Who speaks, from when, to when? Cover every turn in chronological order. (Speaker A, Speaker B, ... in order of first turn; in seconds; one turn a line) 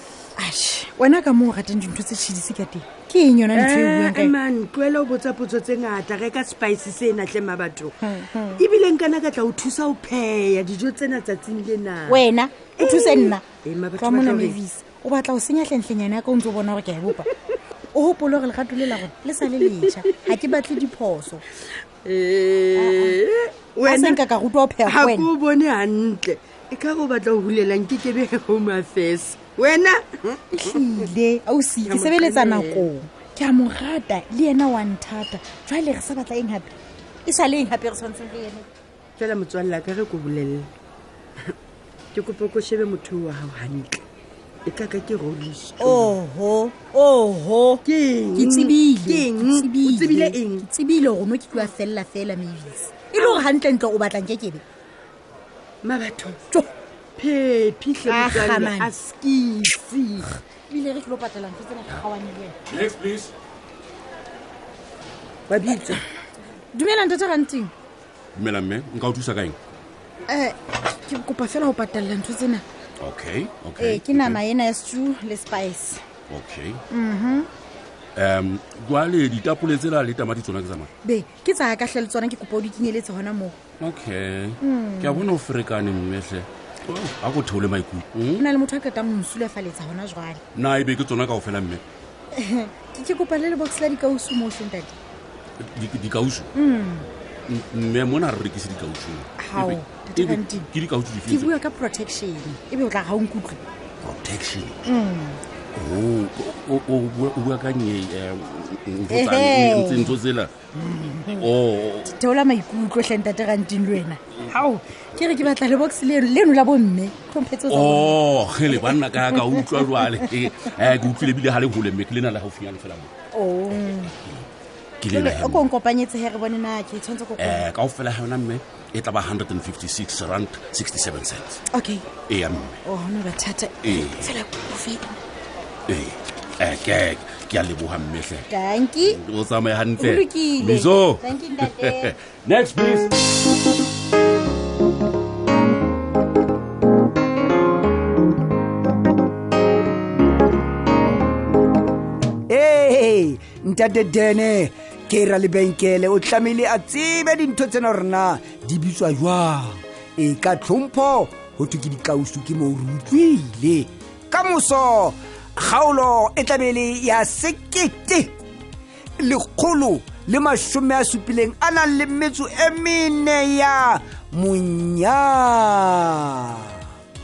Speaker A: 0.4-4.4
Speaker B: 3.5-7.9
Speaker A: 8.0-8.7
Speaker B: 8.6-14.6
Speaker A: 12.1-13.4
Speaker A: 14.0-17.3
Speaker A: 17.9-21.4
Speaker B: 19.6-20.0
Speaker B: 22.0-24.2
Speaker A: 22.8-23.2
Speaker A: 23.8-25.3
Speaker B: 24.8-30.8
Speaker A: 30.5-36.7
Speaker B: 31.8-32.9
Speaker A: 37.3-38.7
Speaker B: 39.2-40.7
Speaker B: 42.1-44.0
Speaker B: 44.7-46.1
Speaker A: 45.8-54.6
Speaker B: 47.9-50.7
Speaker B: 55.8-56.4
Speaker B: 57.2-60.3
Speaker A: 58.0-58.9
Speaker A: 60.7-62.6
Speaker C: 62.7-63.3
Speaker B: 65.5-66.0
Speaker A: 66.7-67.7
Speaker C: 68.3-69.6
Speaker A: 70.3-72.7
Speaker C: 73.0-74.4
Speaker A: 73.8-76.0
Speaker C: 76.3-76.8
Speaker A: 76.9-77.5
Speaker C: 78.2-80.9
Speaker A: 81.0-83.6
Speaker C: 83.8-88.5
Speaker A: 84.6-85.3
Speaker A: 88.3-90.4
Speaker C: 90.5-91.8
Speaker A: 92.4-95.0
Speaker C: 95.6-96.5
Speaker A: 96.5-97.1
Speaker C: 97.5-101.5
Speaker A: 99.4-100.7
Speaker A: 101.3-103.6
Speaker C: 104.0-104.8
Speaker A: 104.9-105.4
Speaker C: 105.8-110.5
Speaker A: 109.1-110.2
Speaker A: 111.0-111.5
Speaker C: 111.1-112.2
Speaker A: 112.0-120.3
Speaker C: 117.7-123.1
Speaker A: 123.3-124.1
Speaker C: 125.0-125.7
Speaker A: 125.1-127.7
Speaker C: 127.4-131.6
Speaker A: 131.7-132.1
Speaker C: 132.3-132.8
Speaker A: 132.8-135.2
Speaker C: 133.8-134.4
Speaker C: 135.9-138.5
Speaker A: 138.5-139.2
Speaker C: 139.1-143.2
Speaker A: 140.0-142.1
Speaker D: 152.5-168.4
Speaker D: 169.2-176.8